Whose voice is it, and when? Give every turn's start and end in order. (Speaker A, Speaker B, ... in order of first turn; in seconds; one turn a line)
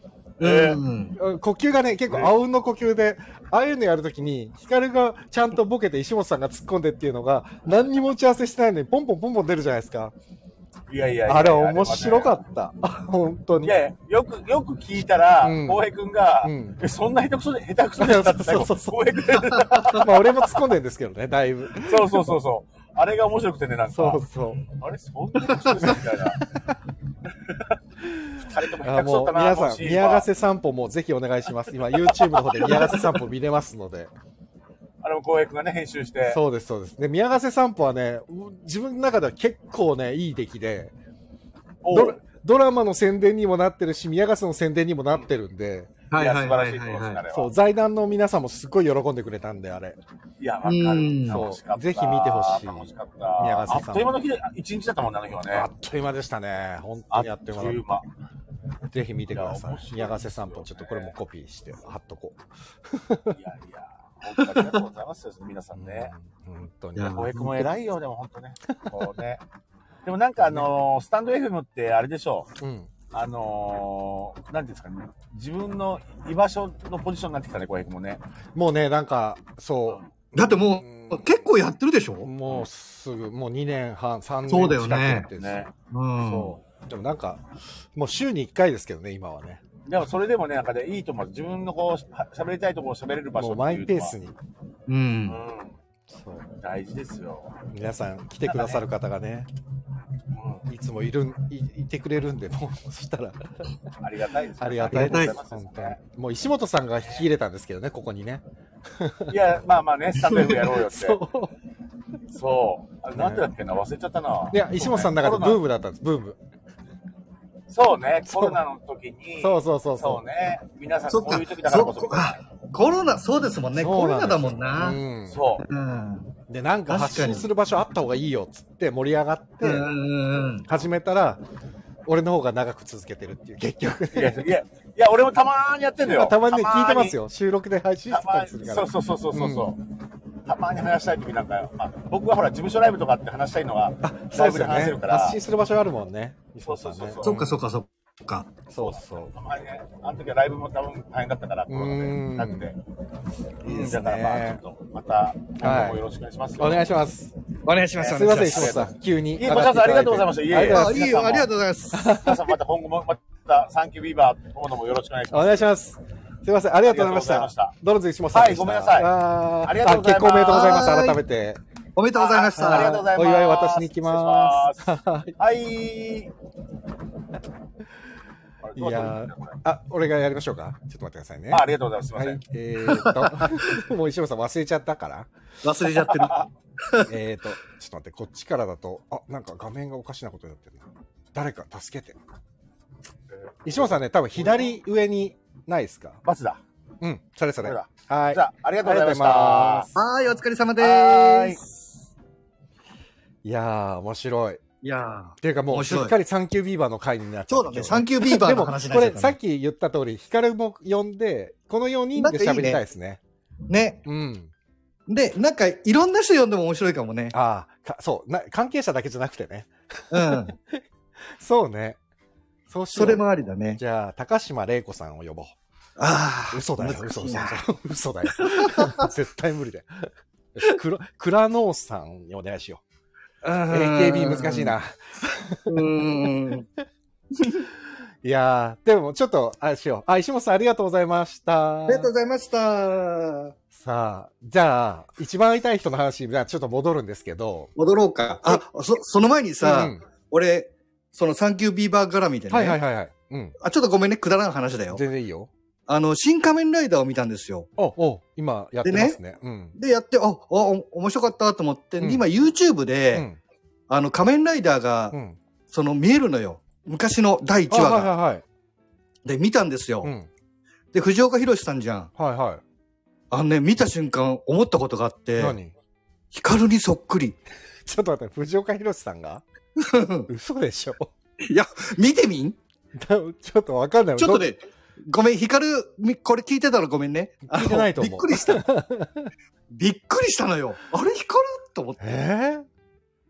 Speaker A: 0.4-1.2
Speaker B: 0.4-0.8
Speaker C: 1.2-10.1
Speaker B: 10.9-12.4
Speaker C: 11.3-13.8
Speaker B: 13.6-20.7
Speaker C: 15.4-15.8
Speaker C: 16.4-16.8
Speaker C: 18.0-19.2
Speaker C: 19.8-22.3
Speaker B: 21.8-26.5
Speaker C: 23.9-24.6
Speaker B: 27.5-27.7
Speaker C: 28.0-34.1
Speaker B: 28.4-30.3
Speaker B: 32.0-33.2
Speaker B: 35.0-36.4
Speaker C: 36.3-40.9
Speaker B: 41.8-42.2
Speaker C: 41.9-45.9
Speaker A: 46.1-47.2
Speaker B: 46.1-47.5
Speaker C: 47.3-50.0
Speaker B: 50.4-55.7
Speaker A: 50.6-51.5
Speaker C: 51.3-54.1
Speaker C: 55.5-57.8
Speaker B: 57.1-58.1
Speaker C: 58.9-63.3
Speaker B: 59.3-61.1
Speaker B: 63.3-66.1
Speaker A: 64.4-64.8
Speaker C: 65.8-67.2
Speaker A: 67.0-67.7
Speaker B: 67.2-69.4
Speaker B: 70.0-72.5
Speaker C: 72.6-72.9
Speaker B: 73.1-78.2
Speaker C: 78.5-81.4
Speaker A: 80.3-82.3
Speaker C: 82.2-85.7
Speaker A: 84.5-85.3
Speaker B: 85.3-85.7
Speaker A: 85.9-86.6
Speaker C: 86.2-87.4
Speaker C: 88.0-89.6
Speaker B: 89.9-94.1
Speaker C: 93.4-94.4
Speaker A: 94.9-95.4
Speaker B: 95.3-95.8
Speaker C: 96.1-96.5
Speaker B: 96.6-97.7
Speaker C: 97.7-99.5
Speaker B: 98.5-98.8
Speaker B: 100.3-100.7
Speaker C: 100.7-103.7
Speaker B: 104.0-106.0
Speaker C: 104.6-109.5
Speaker A: 104.9-105.4
Speaker B: 109.3-111.2
Speaker C: 110.2-111.5
Speaker B: 112.3-115.6
Speaker C: 113.2-113.5
Speaker C: 114.5-116.4
Speaker B: 117.7-122.4
Speaker C: 118.3-118.6
Speaker C: 119.4-120.2
Speaker A: 121.1-125.0
Speaker C: 123.8-125.4
Speaker B: 125.3-125.7
Speaker A: 125.6-126.3
Speaker C: 126.5-129.9
Speaker A: 126.9-127.5
Speaker A: 129.6-130.7
Speaker C: 130.7-131.4
Speaker C: 132.1-134.5
Speaker B: 134.1-137.2
Speaker C: 136.0-139.7
Speaker B: 138.1-139.8
Speaker B: 140.5-145.4
Speaker C: 144.0-147.6
Speaker B: 146.7-147.4
Speaker A: 147.2-148.5
Speaker C: 148.7-149.3
Speaker B: 148.8-152.8
Speaker C: 151.7-152.7
Speaker C: 153.6-154.6
Speaker B: 153.7-156.9
Speaker C: 155.6-156.0
Speaker C: 156.6-157.3
Speaker A: 157.6-158.9
Speaker B: 158.0-161.5
Speaker C: 158.1-161.1
Speaker A: 160.6-162.2
Speaker C: 161.9-162.4
Speaker B: 162.1-165.7
Speaker C: 165.3-171.6
Speaker B: 166.8-167.7
Speaker B: 168.3-170.9
Speaker A: 170.5-171.2
Speaker A: 172.0-173.1
Speaker B: 172.2-176.3
Speaker C: 172.6-175.4
Speaker B: 178.6-179.6
Speaker C: 178.8-181.6
Speaker B: 181.5-182.4
Speaker C: 182.2-185.3
Speaker A: 182.8-183.8
Speaker A: 185.6-187.1
Speaker B: 186.0-186.5
Speaker C: 187.1-192.2
Speaker C: 193.7-196.2
Speaker B: 193.7-194.7
Speaker B: 196.2-196.6
Speaker C: 197.0-199.9
Speaker B: 197.6-199.9
Speaker A: 199.9-201.6
Speaker B: 200.8-201.6
Speaker C: 203.4-204.6
Speaker A: 204.8-206.2
Speaker C: 205.4-213.2
Speaker A: 207.5-209.4
Speaker A: 212.2-212.8
Speaker A: 213.7-214.0
Speaker C: 214.1-214.5
Speaker A: 215.1-217.3
Speaker C: 217.3-220.8
Speaker A: 220.1-220.5
Speaker C: 221.3-222.0
Speaker C: 222.7-223.2
Speaker A: 222.9-223.8
Speaker C: 223.8-225.5
Speaker A: 226.0-227.6
Speaker C: 226.5-232.8
Speaker A: 228.3-229.1
Speaker A: 233.4-234.8
Speaker C: 233.7-236.3
Speaker A: 235.7-236.7
Speaker A: 237.4-237.7
Speaker C: 238.2-242.1
Speaker A: 241.9-243.6
Speaker C: 243.7-247.7
Speaker A: 247.8-252.8
Speaker C: 249.6-250.0
Speaker C: 252.5-253.6
Speaker A: 253.6-255.0
Speaker C: 254.9-255.5
Speaker A: 255.9-257.7
Speaker C: 257.8-259.8
Speaker A: 258.8-259.2
Speaker A: 259.8-263.3
Speaker C: 262.0-262.2
Speaker C: 263.1-263.4
Speaker A: 263.9-265.2
Speaker C: 265.1-265.4
Speaker A: 265.7-268.1
Speaker C: 267.7-268.4
Speaker A: 269.2-270.1
Speaker C: 270.0-270.3
Speaker A: 270.9-272.1
Speaker C: 272.2-272.6
Speaker A: 273.3-275.6
Speaker C: 275.4-275.7
Speaker A: 276.3-277.4
Speaker C: 277.9-279.4
Speaker A: 279.8-280.3
Speaker C: 280.3-281.1
Speaker A: 281.4-282.6
Speaker C: 282.9-284.5
Speaker A: 284.2-288.6
Speaker C: 287.5-289.3
Speaker A: 289.7-292.2
Speaker C: 292.0-292.7